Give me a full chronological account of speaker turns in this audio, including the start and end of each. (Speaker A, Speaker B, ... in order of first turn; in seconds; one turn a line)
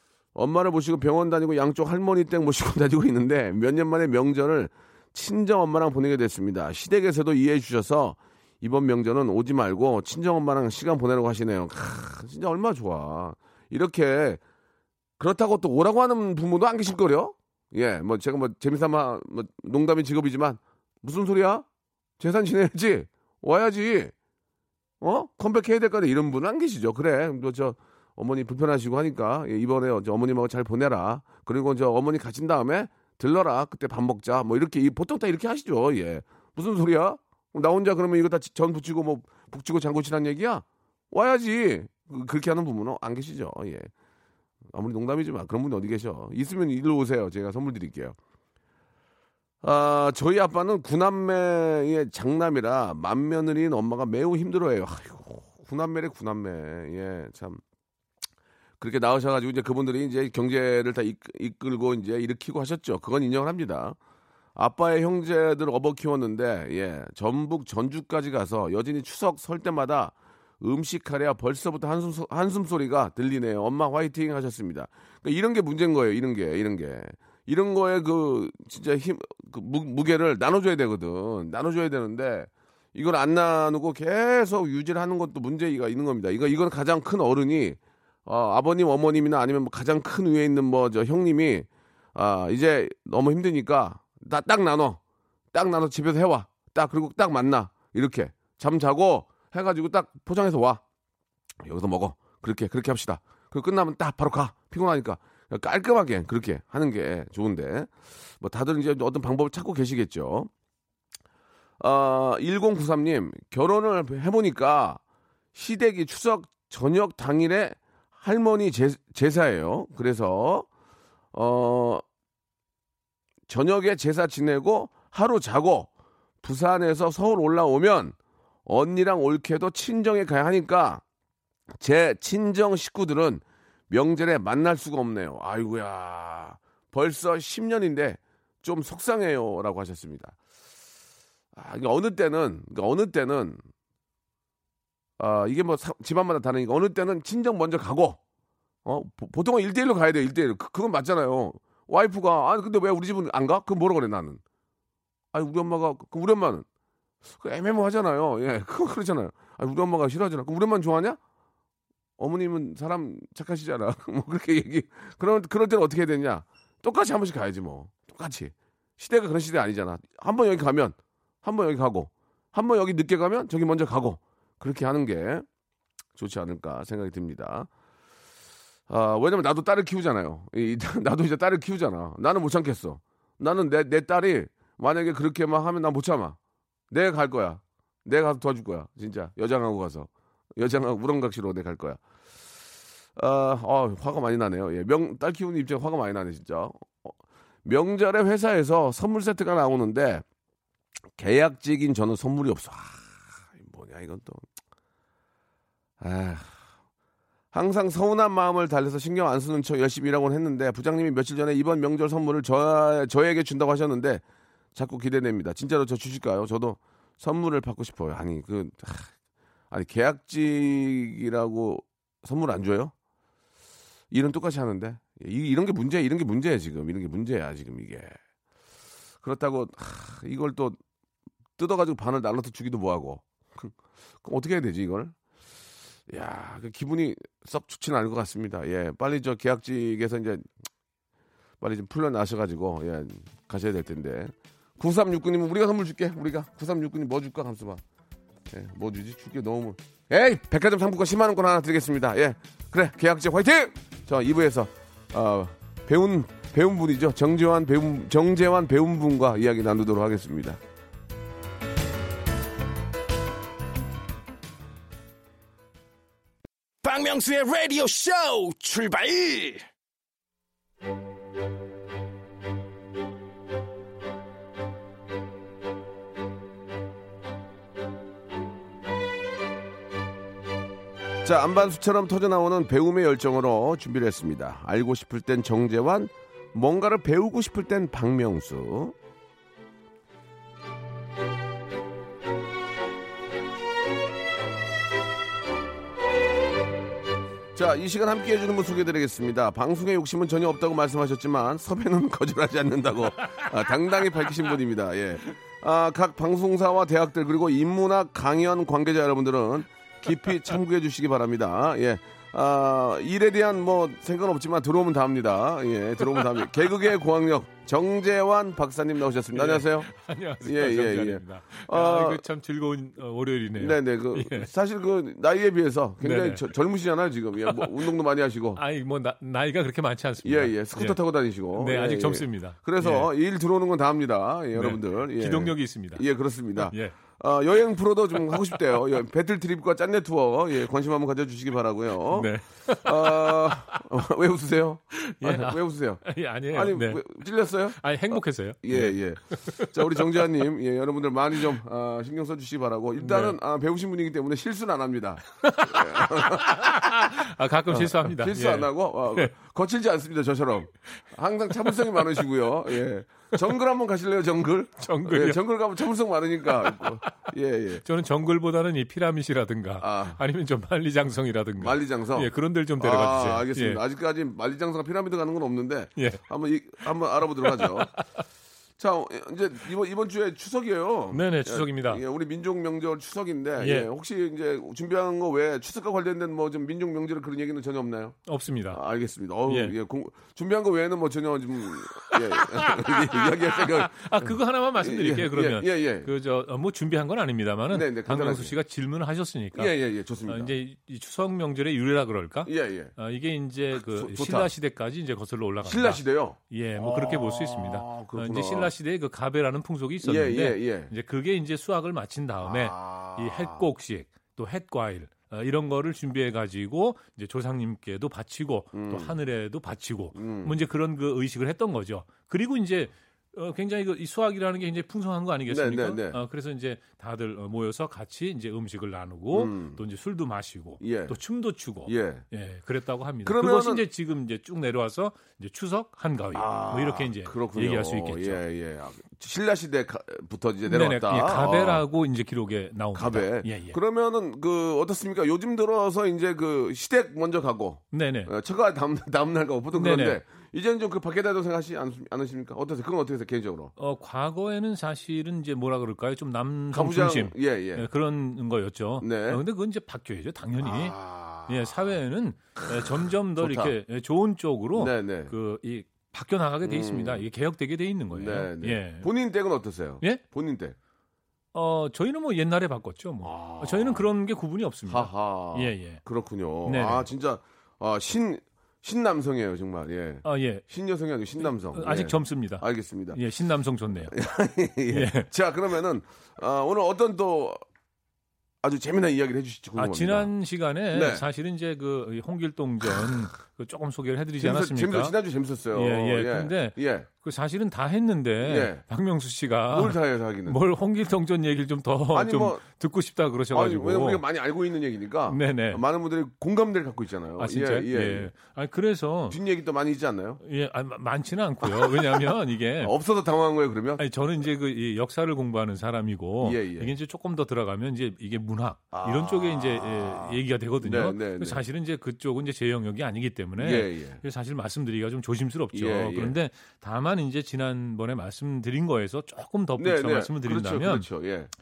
Speaker A: 0.3-14.4
Speaker A: 15.2-21.6
Speaker A: 22.2-24.1
Speaker A: 25.0-43.9
Speaker A: 44.7-48.2
Speaker A: 49.6-57.6
Speaker A: 58.8-64.0
Speaker A: 64.5-95.0
Speaker A: 95.5-100.8
Speaker A: 101.6-110.5
Speaker A: 111.8-115.0
Speaker A: 115.5-120.7
Speaker A: 121.3-122.0
Speaker A: 123.5-125.9
Speaker A: 126.4-131.0
Speaker A: 131.8-140.3
Speaker A: 141.5-143.6
Speaker A: 145.2-148.2
Speaker A: 148.8-154.4
Speaker A: 155.3-156.7
Speaker A: 157.3-161.2
Speaker A: 162.2-175.4
Speaker A: 176.2-177.7
Speaker A: 178.9-186.4
Speaker A: 186.9-192.0
Speaker A: 193.2-197.1
Speaker A: 197.6-200.2
Speaker A: 201.2-204.4
Speaker A: 206.0-206.6
Speaker A: 207.5-214.2
Speaker A: 214.7-219.1
Speaker A: 219.7-222.9
Speaker A: 224.1-228.1
Speaker A: 229.2-230.8
Speaker A: 231.6-235.1
Speaker A: 236.1-240.5
Speaker A: 241.6-247.8
Speaker A: 248.5-260.6
Speaker B: 266.8-269.7
Speaker A: 281.2-288.9
Speaker A: 297.6-319.9
Speaker C: 304.0-304.5
Speaker C: 310.1-310.6
Speaker C: 316.1-316.7
Speaker C: 319.3-324.5
Speaker A: 320.4-322.2
Speaker A: 323.6-328.6
Speaker C: 326.0-326.5
Speaker C: 327.4-327.9
Speaker C: 328.5-331.0
Speaker A: 330.2-367.8
Speaker C: 331.5-333.1
Speaker C: 334.5-336.0
Speaker C: 336.6-336.9
Speaker C: 338.1-339.0
Speaker C: 342.1-343.8
Speaker C: 344.9-347.0
Speaker C: 347.7-350.4
Speaker C: 353.0-353.4
Speaker C: 355.3-359.3
Speaker C: 361.5-362.2
Speaker C: 364.8-365.4
Speaker C: 366.4-373.8
Speaker A: 369.8-370.2
Speaker A: 371.6-377.9
Speaker C: 375.9-376.2
Speaker C: 377.4-378.2
Speaker A: 378.8-388.1
Speaker C: 381.1-382.0
Speaker C: 383.6-383.9
Speaker C: 388.2-388.8
Speaker A: 388.7-396.1
Speaker C: 389.5-389.7
Speaker C: 391.7-399.7
Speaker A: 397.7-398.5
Speaker A: 399.5-400.5
Speaker C: 400.2-438.4
Speaker A: 402.4-402.9
Speaker A: 403.8-404.5
Speaker A: 405.6-408.7
Speaker A: 410.0-410.9
Speaker A: 412.4-413.6
Speaker A: 418.7-419.1
Speaker A: 420.1-420.6
Speaker A: 425.5-426.2
Speaker A: 429.3-429.8
Speaker A: 430.8-431.2
Speaker A: 431.8-432.2
Speaker A: 433.2-433.8
Speaker A: 436.3-441.8
Speaker C: 440.6-443.8
Speaker A: 442.9-453.7
Speaker C: 447.9-448.3
Speaker C: 449.7-450.2
Speaker C: 453.8-469.1
Speaker A: 456.7-457.9
Speaker A: 459.0-459.4
Speaker A: 460.6-461.9
Speaker A: 462.6-463.7
Speaker A: 464.8-465.3
Speaker A: 466.6-467.2
Speaker A: 468.1-470.8
Speaker C: 471.5-476.0
Speaker A: 473.2-474.1
Speaker A: 474.9-483.2
Speaker C: 476.6-477.1
Speaker C: 480.2-480.6
Speaker C: 481.4-484.1
Speaker A: 484.0-487.6
Speaker C: 484.9-485.3
Speaker A: 488.6-490.3
Speaker C: 489.8-495.2
Speaker A: 490.9-491.2
Speaker A: 494.4-497.1
Speaker C: 495.7-504.2
Speaker A: 498.4-498.8
Speaker A: 499.7-500.6
Speaker A: 502.1-502.6
Speaker A: 503.5-508.3
Speaker C: 505.3-505.8
Speaker C: 507.4-509.4
Speaker A: 509.3-510.4
Speaker C: 510.4-512.9
Speaker A: 511.6-512.2
Speaker A: 512.8-514.0
Speaker C: 514.0-531.1
Speaker A: 516.4-516.9
Speaker A: 518.9-521.6
Speaker A: 523.6-524.2
Speaker A: 525.7-526.4
Speaker A: 529.8-531.5